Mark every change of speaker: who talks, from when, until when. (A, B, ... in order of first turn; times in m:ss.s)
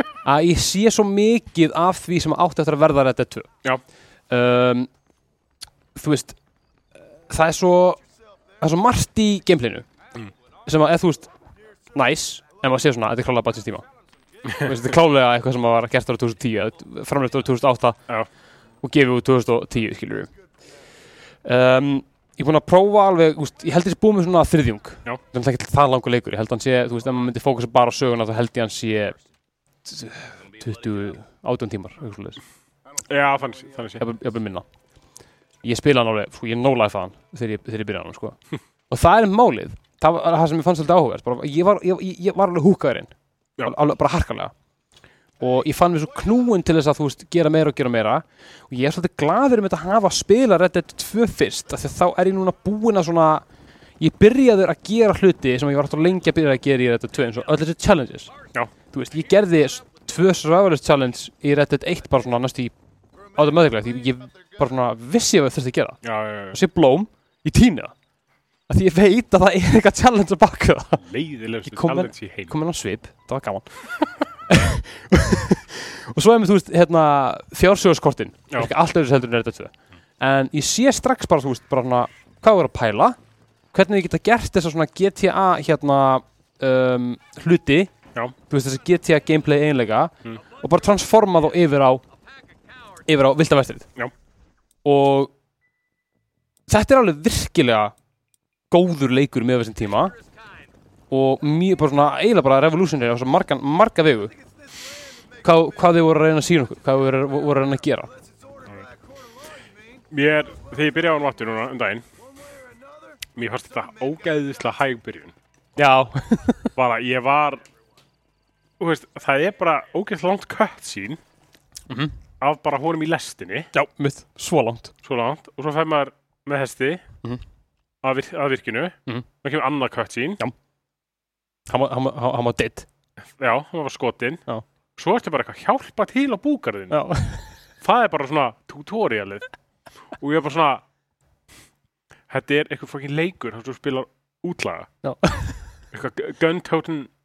0:00.2-0:03.5 A
0:04.3-0:04.9 A
0:06.0-0:06.4 A
0:07.3-0:08.0 A
0:08.6-0:09.9 A
0:10.7-0:11.3 A
0:11.9-0:13.9 A
0:14.4-0:14.8 B
0:14.6-0:18.0 A
0:18.8-0:20.3 A
0:21.4-0:29.2 A
0:29.9-0:32.4 A
0:33.0-0:34.0 B
0:34.0-0:34.7 A
0:35.6-0:38.4 A
0:38.9-0:43.1 A
0:43.6-0:44.5 A
0:45.4-0:53.4 A
0:54.0-0:58.3 A
0:58.9-1:02.7 A
1:03.4-1:06.0 A
1:06.0-1:06.6 B
1:06.5-1:07.9 A
1:08.7-1:11.0 A
1:11.0-1:12.6 B
1:11.6-1:13.8 A
1:14.5-1:23.2 A
1:23.7-1:27.9 A
1:28.5-1:32.0 A
1:33.0-1:33.9 A
1:34.8-1:35.3 A
1:36.7-1:37.9 A
1:38.7-1:40.2 A
1:41.1-1:44.3 A
1:45.4-1:48.1 A
1:50.1-1:52.0 B
1:53.4-1:55.4 B
1:55.8-1:56.7 A
1:56.8-1:57.6 B
1:58.8-2:01.2 B
2:01.9-2:02.2 A
2:02.4-2:03.7 B
2:03.7-2:04.9 A
2:05.0-2:07.0 B
2:08.0-2:10.4 B
2:11.7-2:12.9 A
2:13.4-2:14.4 B
2:15.0-2:17.0 B
2:16.9-2:17.5 A
2:17.8-2:19.4 B
2:20.2-2:20.8 B
2:22.3-2:24.9 B
2:25.0-2:25.6 A
2:25.9-2:27.1 B